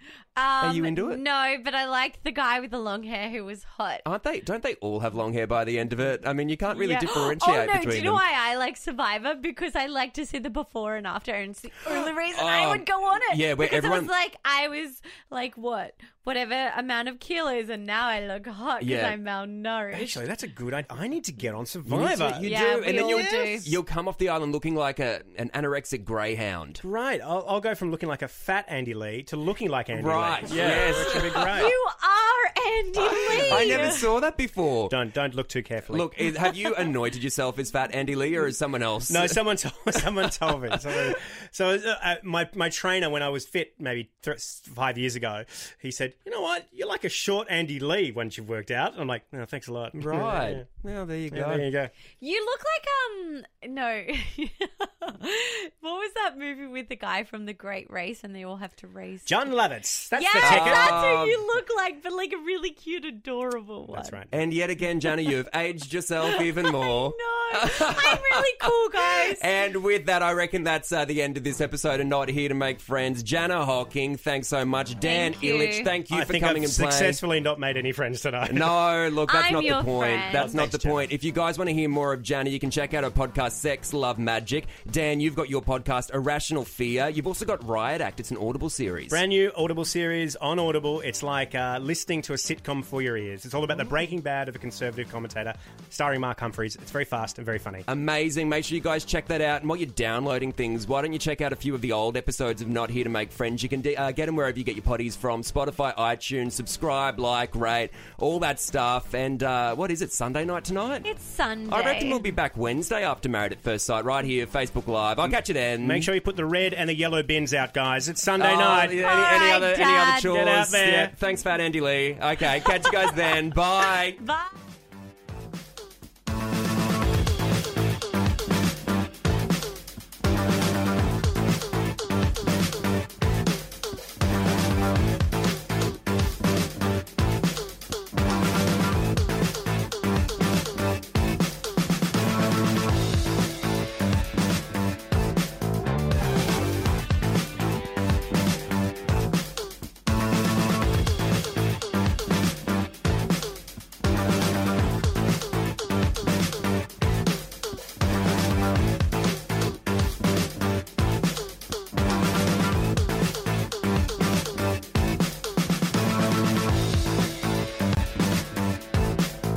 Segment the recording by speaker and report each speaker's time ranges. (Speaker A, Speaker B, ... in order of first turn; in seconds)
Speaker A: 0.3-4.0, 6.7-20.2, 22.4-23.8, 31.5-34.0, 52.2-59.5, 60.1-64.2, 66.2-69.4, 75.0-75.9, 79.3-80.6, 111.0-112.2, 119.0-120.3, 122.6-123.1, 123.9-124.5
Speaker B: 0.6-1.2, 4.0-8.2, 11.9-14.1, 18.8-19.2, 21.9-26.8, 29.9-31.7, 33.1-34.9, 35.9-39.4, 40.7-41.1, 50.0-51.6, 60.4-61.4, 64.3-77.2, 78.5-89.2, 97.9-111.0, 111.7-116.1, 118.4-124.2
Speaker C: 19.9-23.2, 26.8-31.7, 33.3-34.0, 34.9-36.1, 39.1-50.6, 51.3-51.9, 59.2-61.2, 63.9-64.3, 76.1-78.8, 80.3-81.1, 89.1-97.9, 115.8-119.2, 120.2-121.1